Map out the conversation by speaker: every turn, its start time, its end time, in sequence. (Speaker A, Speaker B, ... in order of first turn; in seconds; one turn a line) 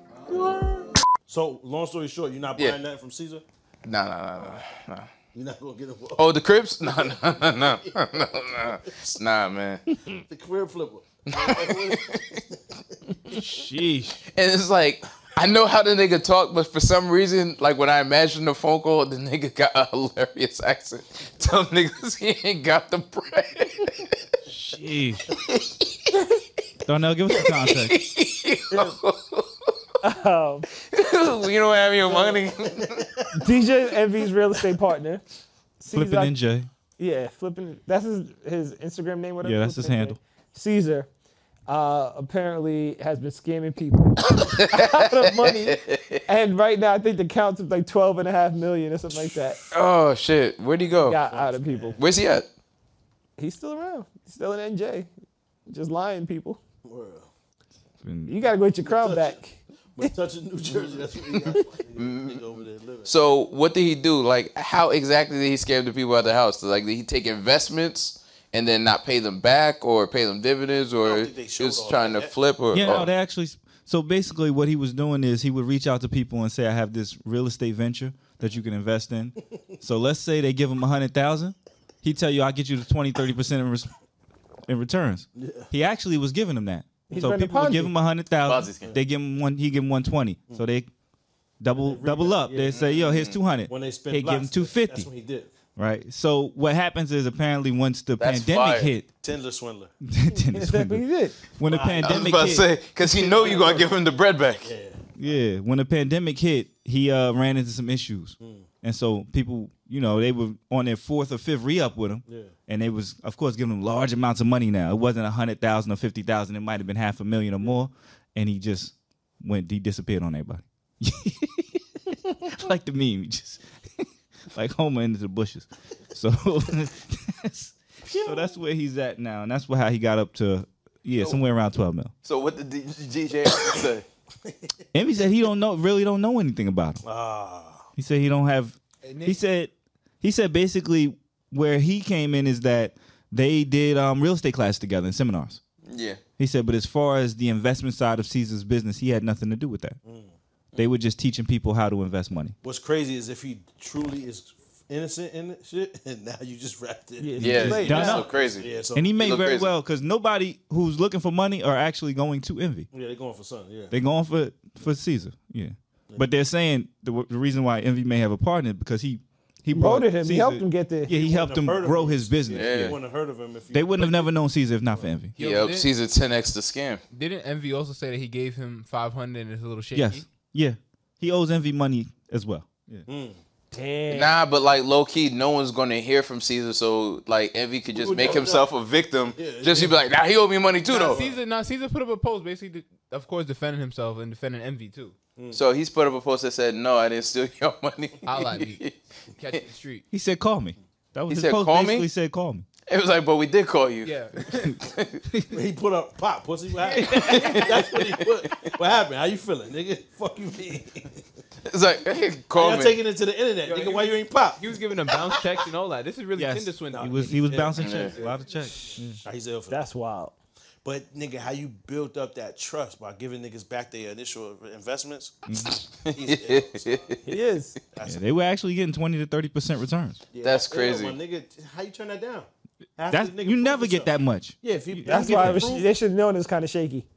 Speaker A: 0.3-3.4
Speaker B: 3.9-5.1
Speaker A: 5.3-9.2
Speaker B: 6.2-9.8
Speaker A: 10.3-13.0
Speaker B: 11.3-12.4
Speaker C: 13.3-14.2
Speaker B: 14.3-24.1
Speaker C: 24.5-25.3
Speaker B: 25.4-26.0
Speaker C: 26.9-28.1
Speaker B: 27.4-29.8
Speaker D: 28.7-29.0
Speaker D: 30.0-30.7
Speaker B: 30.8-33.0
Speaker D: 32.1-32.4
Speaker A: 32.8-33.3
Speaker D: 33.4-35.2
Speaker D: 35.8-36.4
Speaker C: 35.9-36.7
Speaker D: 37.0-41.1
Speaker C: 39.4-40.2
Speaker D: 41.7-49.6
Speaker B: 44.3-46.2
Speaker B: 49.7-51.3
Speaker D: 51.0-52.0
Speaker A: 51.2-52.0
Speaker B: 52.0-52.5
Speaker D: 53.4-55.1
Speaker D: 55.7-56.6
Speaker A: 56.9-57.3
Speaker C: 58.0-58.4
Speaker D: 58.3-60.1
Speaker A: 58.8-59.4
Speaker A: 60.0-63.1
Speaker B: 62.0-62.4
Speaker B: 63.0-73.1
Speaker A: 71.0-72.3
Speaker C: 72.7-83.9
Speaker C: 84.7-90.9
Speaker A: 85.4-85.7
Speaker D: 87.1-87.9
Speaker B: 88.5-88.9
Speaker C: 91.6-95.1
Speaker A: 91.8-92.8
Speaker B: 92.7-93.4
Speaker A: 93.7-95.5
Speaker C: 95.8-99.1
Speaker B: 98.2-98.9
Speaker A: 99.2-99.9
Speaker C: 100.1-102.7
Speaker D: 100.3-101.4
Speaker A: 101.7-102.3
Speaker B: 102.0-104.7
Speaker A: 103.3-103.9
Speaker A: 104.6-105.3
Speaker C: 105.2-132.1
Speaker A: 108.4-108.7
Speaker A: 112.3-112.5
Speaker B: 132.2-134.1
Speaker C: 134.9-137.0
Speaker A: 137.0-137.9
Speaker C: 138.0-145.6
Speaker E: 139.0-139.4
Speaker B: 145.9-146.2
Speaker C: 146.4-150.0
Speaker A: 150.1-150.3
Speaker C: 150.8-152.6
Speaker A: 152.6-159.2
Speaker D: 157.2-158.3
Speaker C: 157.4-158.3
Speaker B: 157.4-159.7
Speaker C: 158.9-162.9
Speaker A: 162.9-163.9
Speaker C: 163.9-173.0
Speaker D: 169.7-171.1
Speaker A: 171.1-174.3
Speaker B: 172.5-173.0
Speaker C: 173.7-175.3
Speaker E: 175.4-175.9
Speaker B: 175.4-177.0
Speaker E: 177.1-180.3
Speaker C: 179.9-183.1
Speaker A: 183.1-183.4
Speaker D: 183.7-184.3
Speaker B: 184.1-191.2
Speaker A: 187.9-188.7
Speaker A: 189.3-190.0
Speaker A: 190.9-191.4
Speaker E: 190.9-195.2
Speaker A: 195.4-195.6
Speaker B: 195.5-198.9
Speaker E: 198.2-200.1
Speaker C: 200.1-202.7
Speaker B: 201.3-202.1
Speaker B: 202.9-205.2
Speaker E: 204.0-204.6
Speaker A: 205.5-211.2
Speaker E: 206.7-207.9
Speaker B: 207.1-208.3
Speaker B: 211.7-213.0
Speaker A: 212.5-215.4
Speaker E: 213.6-219.0
Speaker C: 216.4-219.2
Speaker A: 216.9-218.0
Speaker B: 217.8-218.1
Speaker A: 219.2-219.8
Speaker D: 219.7-220.3
Speaker A: 220.8-225.4
Speaker C: 225.5-225.8
Speaker B: 225.7-227.3
Speaker A: 226.1-227.0
Speaker D: 227.3-227.8
Speaker A: 227.9-228.2
Speaker C: 228.0-230.2
Speaker A: 230.3-235.9
Speaker B: 230.4-231.2
Speaker C: 233.1-235.7
Speaker D: 235.1-237.1